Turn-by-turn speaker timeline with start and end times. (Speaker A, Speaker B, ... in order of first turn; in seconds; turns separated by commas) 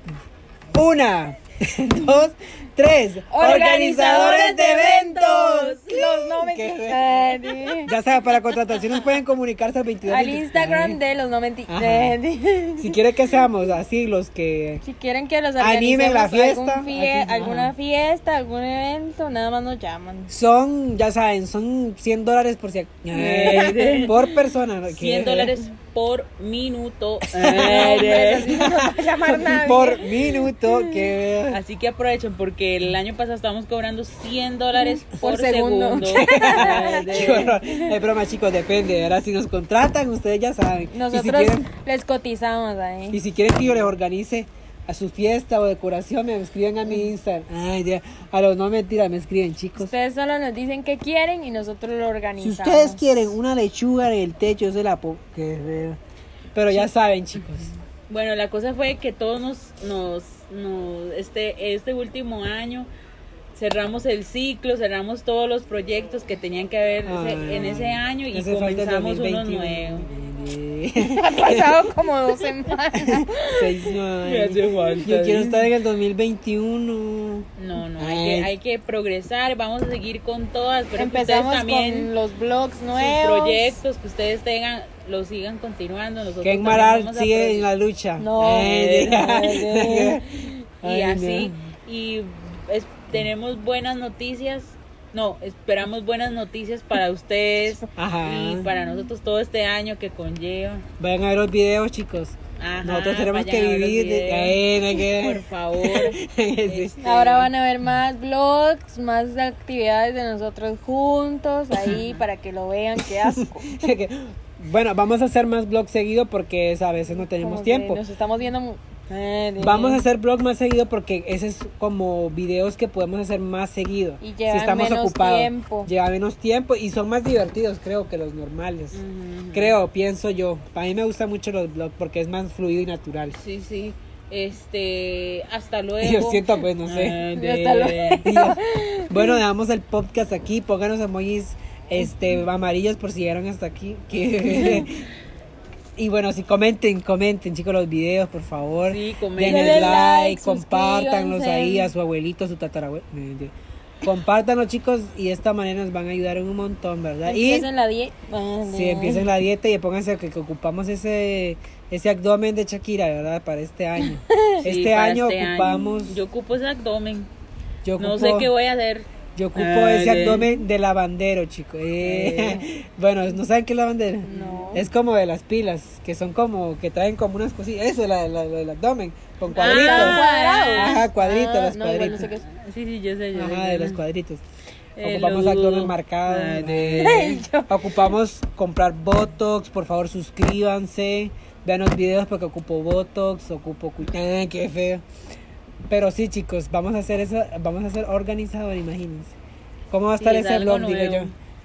Speaker A: 0.7-7.0, Speaker B: 3.3-7.9, Speaker A: 7.8-11.0, Speaker B: 10.0-13.0, Speaker A: 11.7-12.2, Speaker A: 12.8-14.8, Speaker B: 14.8-20.3, Speaker A: 15.6-17.7, Speaker A: 20.3-25.5, Speaker C: 23.1-24.2, Speaker B: 23.5-24.1, Speaker C: 24.9-28.6, Speaker A: 27.3-31.6, Speaker B: 27.5-31.1, Speaker C: 31.5-37.5, Speaker B: 34.8-37.9, Speaker A: 36.0-41.7, Speaker B: 40.9-43.2, Speaker A: 43.1-49.9, Speaker B: 49.8-53.2, Speaker A: 52.4-56.0, Speaker A: 56.5-57.7, Speaker C: 58.1-62.9, Speaker C: 63.5-70.1, Speaker A: 67.0-71.8, Speaker B: 71.0-73.9, Speaker A: 73.0-78.5, Speaker C: 74.2-75.7, Speaker C: 77.6-82.1, Speaker B: 81.0-83.8, Speaker C: 82.9-87.7, Speaker A: 86.4-90.2, Speaker B: 88.2-90.5, Speaker A: 90.8-91.5, Speaker C: 90.8-100.8, Speaker A: 98.0-98.7, Speaker A: 101.0-106.9, Speaker C: 102.6-107.5, Speaker B: 107.0-113.8, Speaker C: 111.8-112.2, Speaker A: 113.0-118.0, Speaker B: 117.3-120.0, Speaker A: 119.6-129.0, Speaker B: 124.2-125.9, Speaker C: 128.9-129.8, Speaker A: 129.5-133.4, Speaker C: 133.4-138.3, Speaker A: 136.0-137.2, Speaker B: 137.3-139.4, Speaker A: 138.2-145.0, Speaker A: 146.0-157.7, Speaker C: 148.8-150.1, Speaker B: 149.4-151.9, Speaker B: 157.2-159.3, Speaker A: 158.7-166.2, Speaker B: 164.0-164.6, Speaker C: 164.6-167.3, Speaker A: 167.8-168.5, Speaker C: 168.0-170.6, Speaker A: 169.3-180.2, Speaker C: 172.0-172.7, Speaker B: 174.3-174.9, Speaker C: 174.3-174.6, Speaker C: 179.5-181.1, Speaker B: 179.6-182.4, Speaker A: 180.7-182.3, Speaker C: 182.4-184.0, Speaker A: 183.3-184.4, Speaker C: 184.9-187.4, Speaker A: 185.0-195.0, Speaker B: 187.0-188.0, Speaker A: 195.9-199.3, Speaker A: 199.9-201.3, Speaker C: 200.2-201.3